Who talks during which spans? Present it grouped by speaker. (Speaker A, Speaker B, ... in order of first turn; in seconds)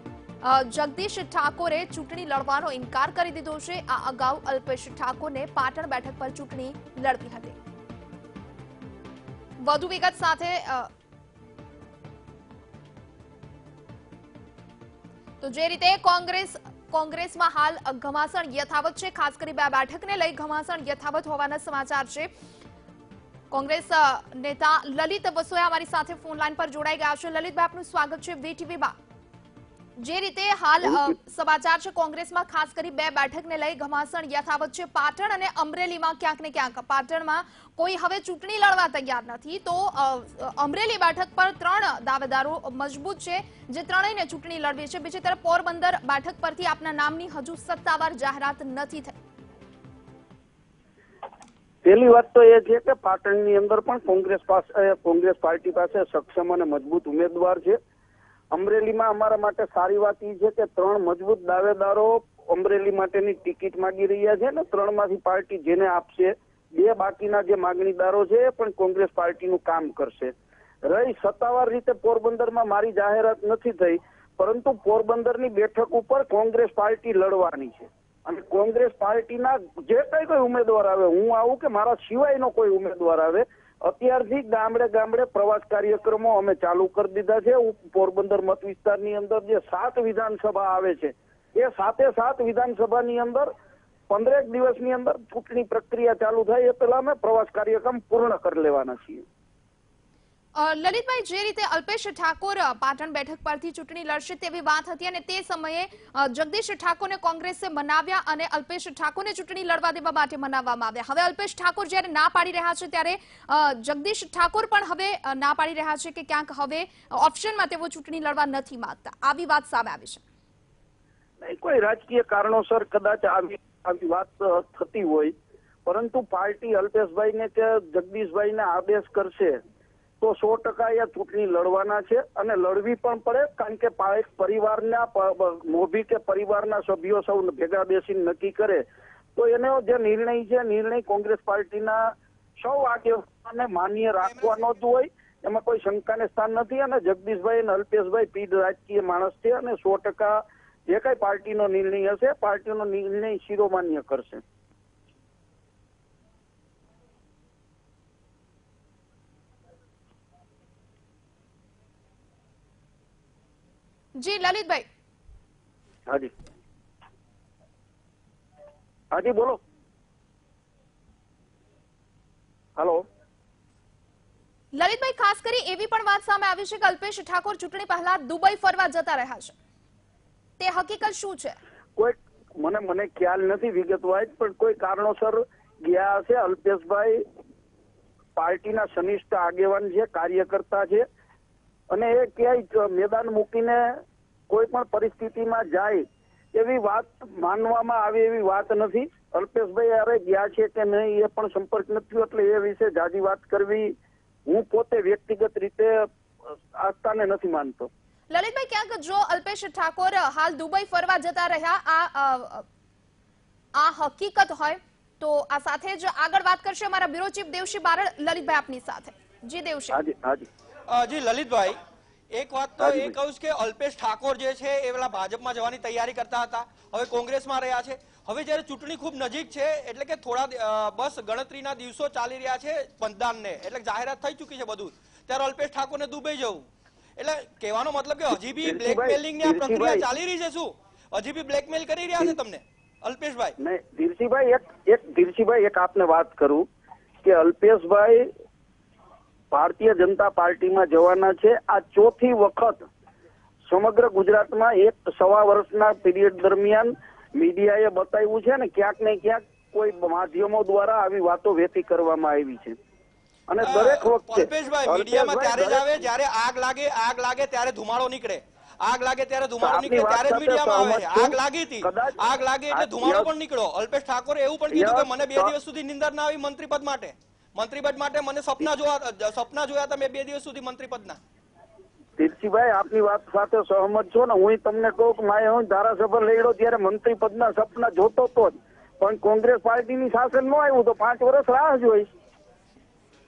Speaker A: 0.4-7.6, 9.6-10.9, 15.4-22.3, 23.5-29.0, 30.0-49.2, 100.5-120.2, 164.2-164.9, 174.7-179.6, 180.6-181.6, 208.3-212.7, 213.8-220.0
Speaker B: 30.8-31.1, 51.8-57.8, 58.5-70.3, 70.9-93.5, 94.1-99.2, 121.4-125.3, 125.9-129.6, 130.2-138.8, 139.4-142.0, 142.6-154.4, 169.1-169.6, 172.8-173.0, 182.0-187.2, 188.4-191.1, 191.9-193.9, 194.5-203.9, 204.5-207.9, 219.9-220.5, 222.8-223.1, 238.6-240.1, 243.6-246.7, 247.2-248.3, 249.5-252.9, 253.7-262.8, 263.5-265.9, 269.6-273.3, 274.7-275.5, 282.2-292.1
Speaker C: 144.2-144.6, 220.9-221.8, 222.3-236.7, 237.2-243.6, 263.6-281.2